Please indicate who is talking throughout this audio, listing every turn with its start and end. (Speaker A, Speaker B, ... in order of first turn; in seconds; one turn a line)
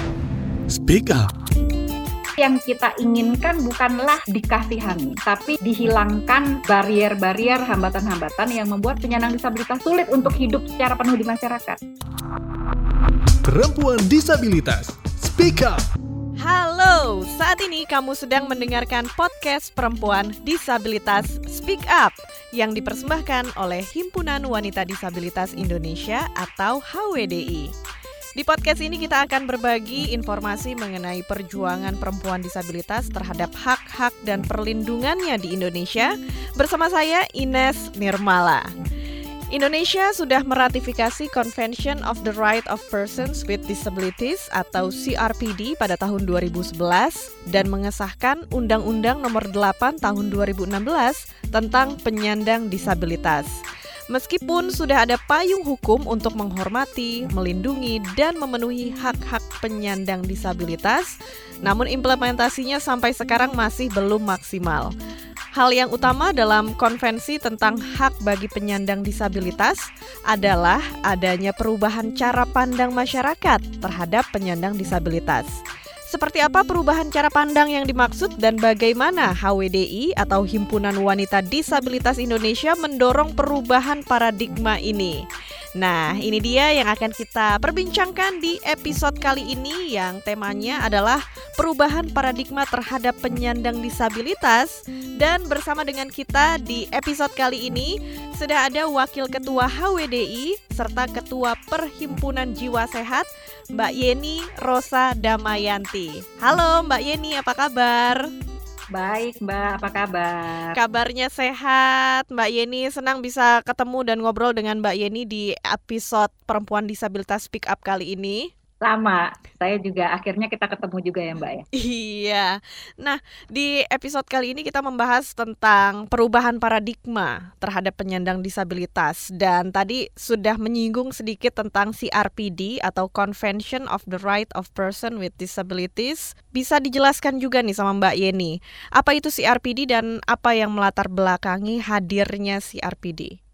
Speaker A: 0.7-1.3
Speaker B: 2.4-11.8
Speaker A: 13.4-15.8
Speaker C: 16.4-27.7
Speaker C: 28.4-38.7
Speaker C: 39.5-53.5
Speaker C: 54.1-64.9
Speaker C: 65.5-75.6
Speaker C: 76.1-85.2
Speaker C: 85.8-108.2
Speaker B: 108.9-110.8
Speaker C: 110.7-118.5
Speaker B: 118.8-121.6
Speaker C: 121.7-143.4